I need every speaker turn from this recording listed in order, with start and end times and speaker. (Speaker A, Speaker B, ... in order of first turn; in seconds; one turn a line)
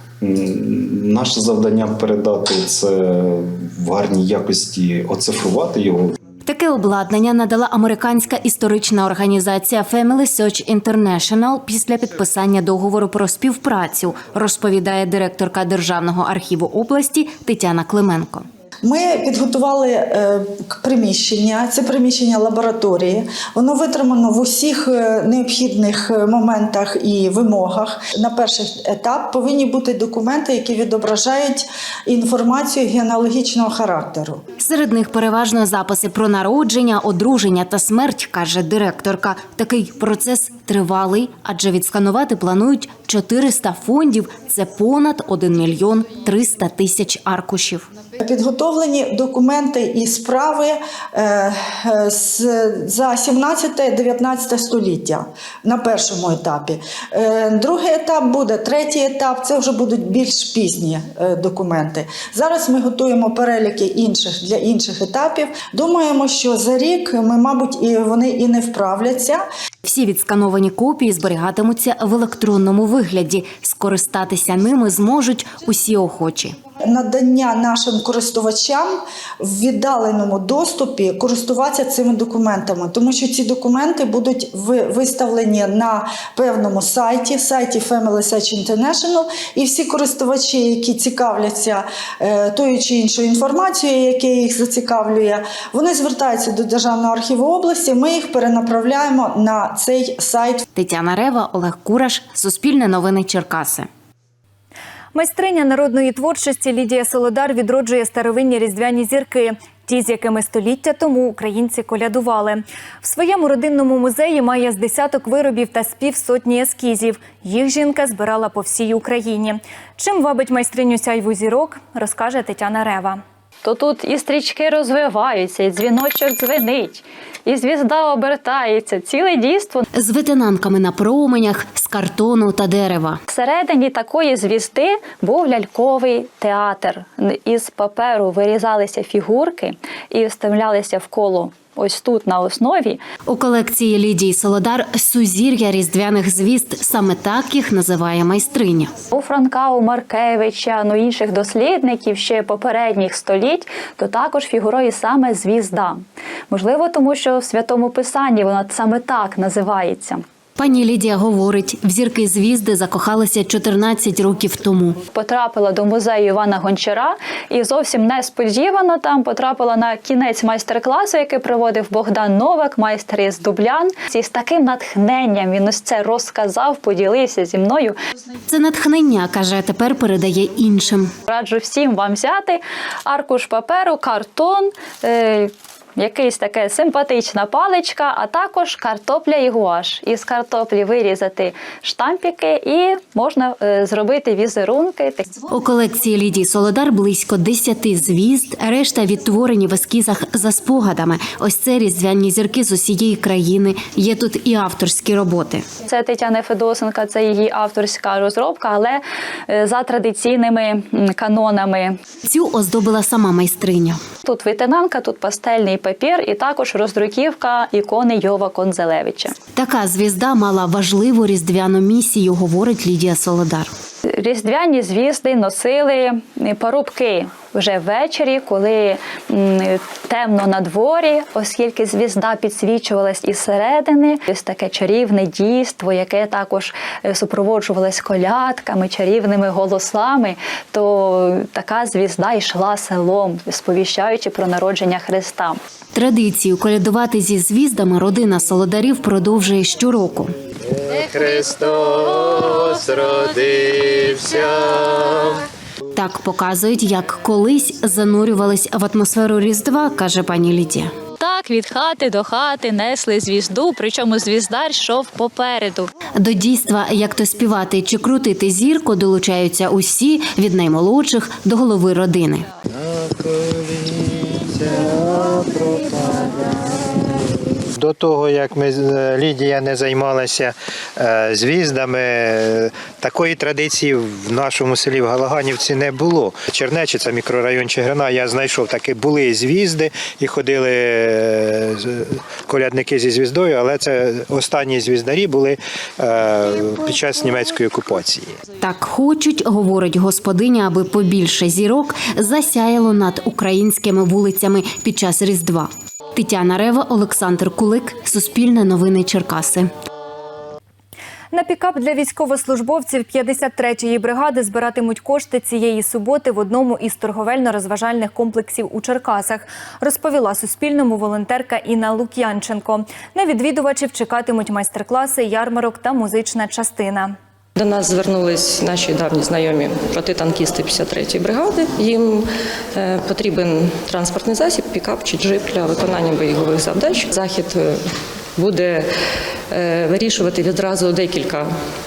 Speaker A: 0.2-6.1
Speaker B: 6.4-18.4
Speaker C: 18.8-34.4
Speaker B: 34.6-47.9
Speaker C: 48.2-69.4
Speaker B: 69.8-76.5
Speaker C: 76.8-100.6
Speaker B: 100.7-103.9
Speaker D: 105.1-123.2
Speaker E: 123.6-129.8
Speaker B: 129.9-133.2
Speaker E: 133.3-143.0
Speaker B: 143.3-148.9
Speaker E: 149.1-160.2
Speaker B: 160.6-165.0
Speaker E: 165.1-177.9
Speaker B: 178.5-181.1
Speaker E: 181.3-195.3
Speaker B: 195.5-205.6
Speaker E: 205.8-212.0
Speaker B: 212.2-214.0
Speaker E: 214.2-219.3
Speaker B: 219.6-223.7
Speaker E: 224.1-245.6
Speaker B: 245.9-250.3
Speaker F: 251.0-254.3
Speaker B: 255.9-260.9
Speaker E: 261.3-265.6
Speaker B: 266.2-272.5
Speaker G: 273.0-276.2
Speaker G: 277.8-298.3
Speaker B: 298.6-309.7
Speaker D: 311.3-327.1
Speaker H: 327.6-337.8
Speaker H: 338.4-338.9
Speaker H: 339.5-341.5